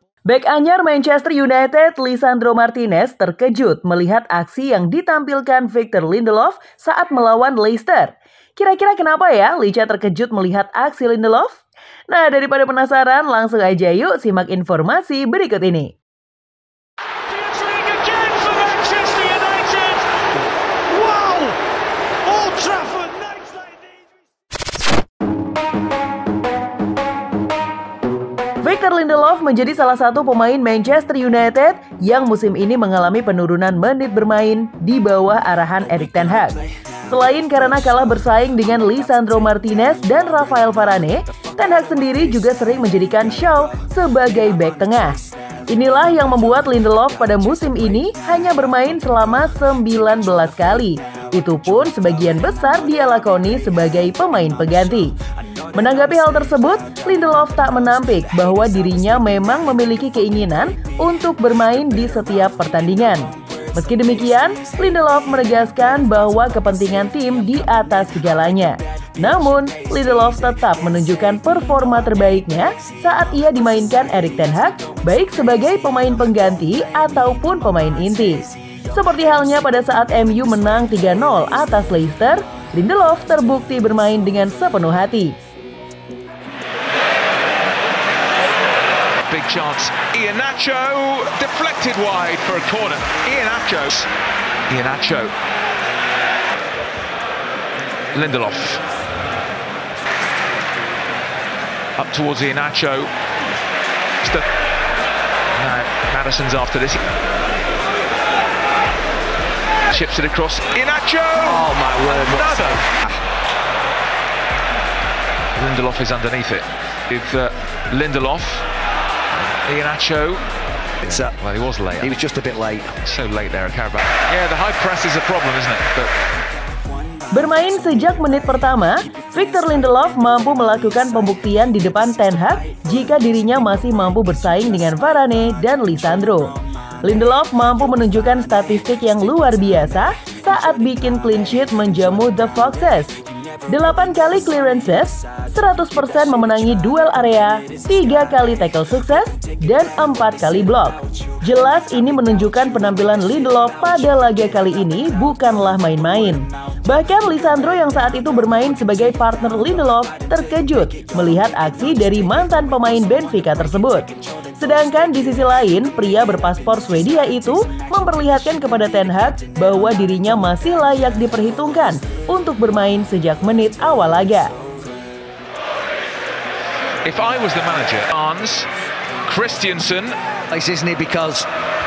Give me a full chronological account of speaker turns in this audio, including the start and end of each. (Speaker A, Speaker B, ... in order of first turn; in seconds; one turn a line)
Speaker A: 0.3-16.0
Speaker B: 17.5-19.7
Speaker B: 20.9-21.6
Speaker B: 22.3-23.8
Speaker A: 28.6-45.2
Speaker A: 45.7-55.1
Speaker A: 55.8-85.4
Speaker C: 89.3-94.1
Speaker C: 94.7-95.3
Speaker C: 98.1-98.8
Speaker C: 102.0-103.1
Speaker C: 105.6-107.0
Speaker C: 109.9-112.9
Speaker B: 111.4-113.1
Speaker C: 115.5-118.7
Speaker C: 119.7-120.4
Speaker B: 121.0-121.3
Speaker C: 121.1-122.1
Speaker B: 122.0-122.9
Speaker C: 123.0-126.1
Speaker A: 127.3-136.5
Speaker A: 137.1-174.5
Speaker C: 177.1-178.7
Speaker C: 179.2-180.2
Speaker B: 180.5-181.5